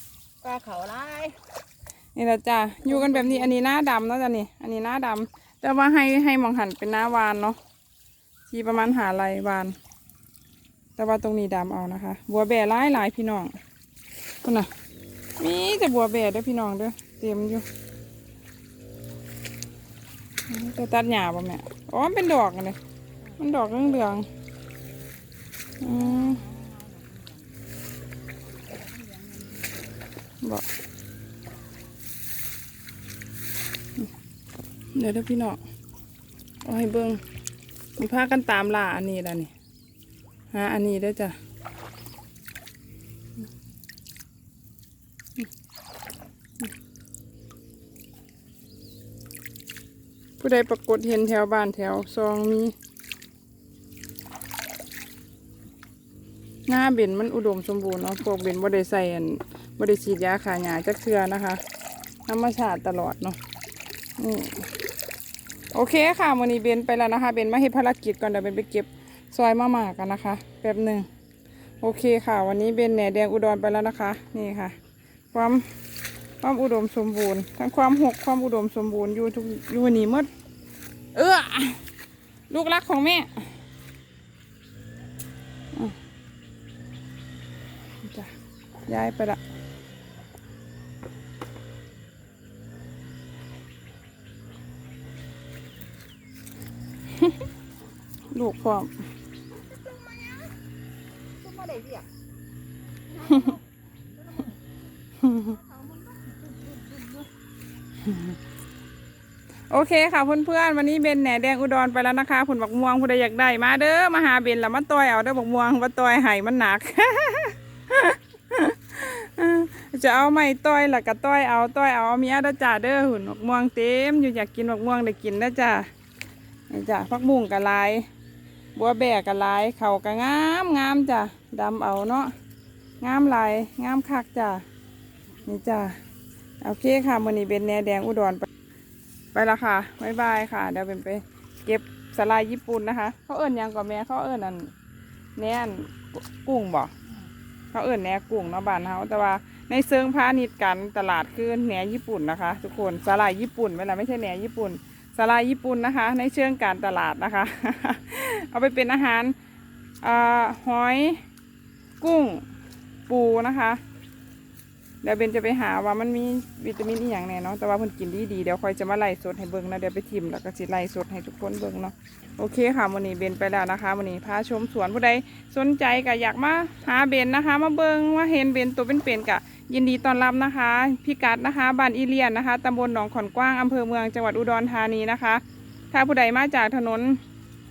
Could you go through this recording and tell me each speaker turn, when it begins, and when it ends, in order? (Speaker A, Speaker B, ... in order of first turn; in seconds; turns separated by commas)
Speaker A: 0.4-1.4, Speaker B: 2.1-7.6, Speaker A: 2.8-3.5, Speaker B: 8.5-9.8, Speaker B: 11.0-13.6, Speaker B: 14.4-14.7, Speaker B: 15.4-17.6, Speaker B: 20.5-22.8, Speaker A: 23.4-23.8, Speaker B: 23.4-24.3, Speaker B: 25.8-26.4, Speaker A: 25.8-27.5, Speaker A: 28.6-29.9, Speaker B: 34.9-35.6, Speaker B: 36.6-37.2, Speaker B: 38.0-39.5, Speaker B: 40.5-41.4, Speaker B: 50.4-52.7, Speaker B: 56.7-61.6, Speaker B: 62.3-63.4, Speaker B: 64.2-64.7, Speaker B: 65.7-71.1, Speaker B: 71.8-74.8, Speaker B: 75.3-75.6, Speaker B: 76.4-80.3, Speaker B: 81.1-81.8, Speaker B: 82.5-83.5, Speaker B: 88.0-88.3, Speaker B: 88.9-89.4, Speaker B: 98.3-98.9, Speaker A: 99.7-100.5, Speaker A: 101.4-102.1, Speaker A: 103.1-103.6, Speaker B: 103.3-103.5, Speaker A: 104.2-104.6, Speaker B: 105.2-105.5, Speaker A: 105.2-107.3, Speaker B: 108.0-108.3, Speaker B: 109.7-125.9, Speaker B: 126.7-128.1, Speaker B: 128.7-132.3, Speaker B: 133.0-134.6, Speaker B: 135.4-135.9, Speaker B: 136.6-138.5, Speaker B: 139.3-144.7, Speaker B: 145.4-146.9, Speaker B: 147.7-159.3, Speaker B: 160.0-161.2, Speaker B: 162.0-162.4, Speaker B: 163.1-163.8, Speaker B: 165.0-187.2